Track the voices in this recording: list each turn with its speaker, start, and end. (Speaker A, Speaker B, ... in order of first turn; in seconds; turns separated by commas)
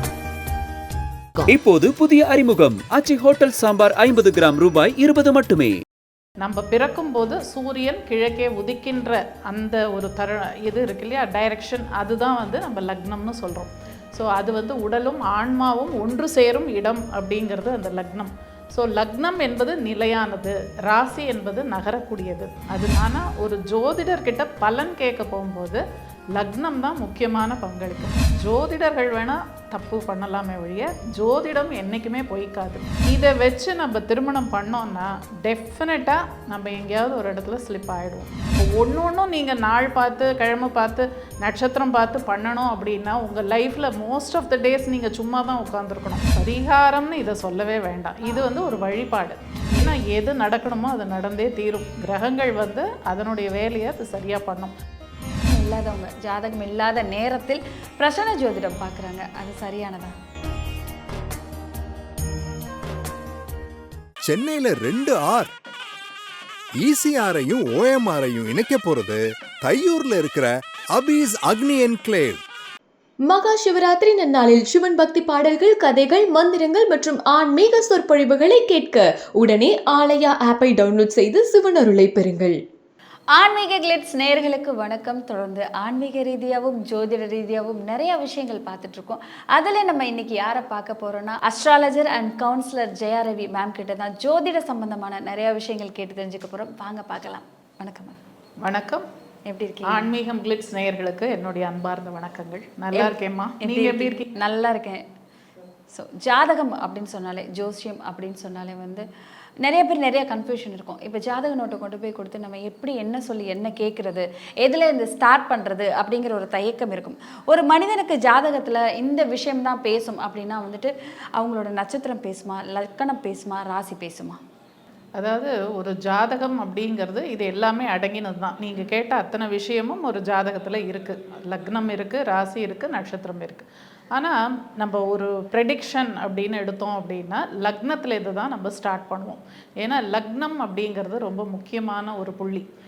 Speaker A: 1.5-5.8, Speaker B: 6.4-25.8, Speaker B: 26.3-54.7, Speaker C: 55.5-60.1, Speaker D: 64.2-65.5, Speaker D: 66.8-72.4, Speaker E: 73.2-82.6, Speaker C: 83.3-98.2, Speaker B: 98.6-99.0, Speaker C: 99.5-100.1, Speaker B: 99.9-104.2, Speaker C: 102.9-105.0, Speaker C: 105.9-109.0, Speaker C: 109.6-124.4, Speaker B: 125.2-142.6